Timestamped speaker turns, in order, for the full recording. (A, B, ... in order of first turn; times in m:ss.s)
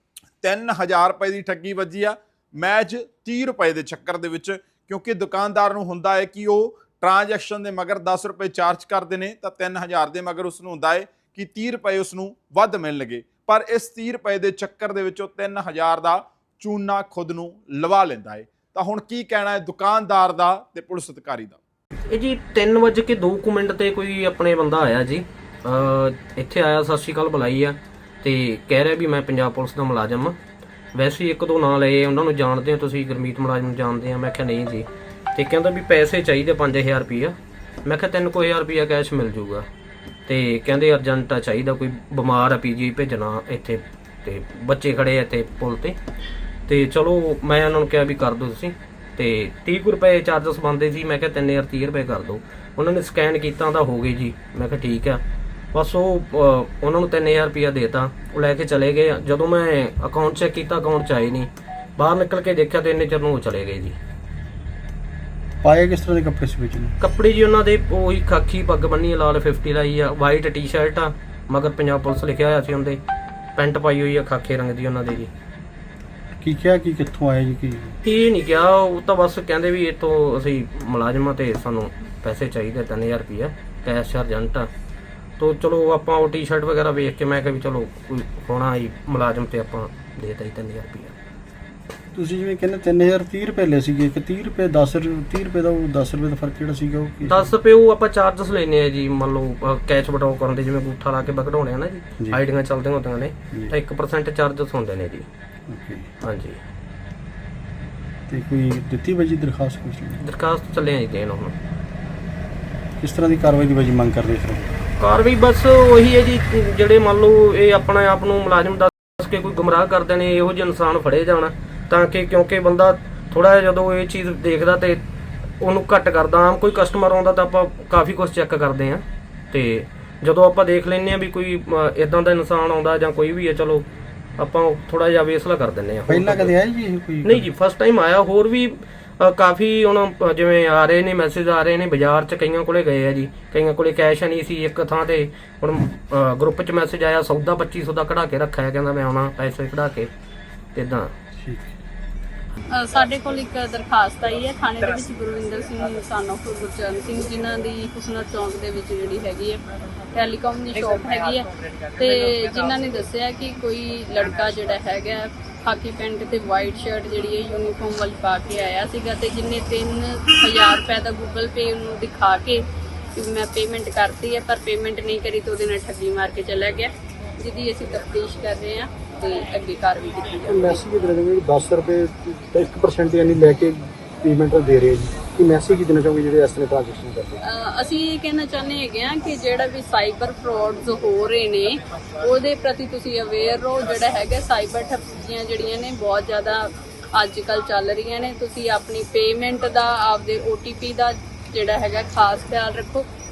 0:00.4-0:21.6 A
0:22.1-0:30.4 B
0:30.9-0:39.7 B
0:40.3-0:46.0 B
0:46.7-0:55.2 B
0:55.7-1:04.0 B
1:05.6-1:07.0 C
1:07.0-1:13.0 B
1:13.6-1:15.3 B
1:16.4-1:18.0 C
1:18.0-1:24.7 B
1:25.4-1:31.1 B
1:32.1-1:37.5 C
1:37.3-1:45.3 B
1:45.7-1:46.1 C
1:46.2-1:46.6 B
1:48.3-1:50.2 C
1:50.2-1:51.5 B
1:53.0-1:54.7 C
1:55.0-2:05.0 B
2:05.6-2:13.9 B
2:14.4-2:16.5 B
2:16.1-2:17.5 C
2:17.2-2:30.1 B
2:30.8-2:31.1 B
2:31.4-2:31.8 C
2:32.7-2:39.6 D
2:40.1-2:52.6 D
2:53.2-3:00.8 D
3:00.5-3:07.4 C
3:07.4-3:23.1 D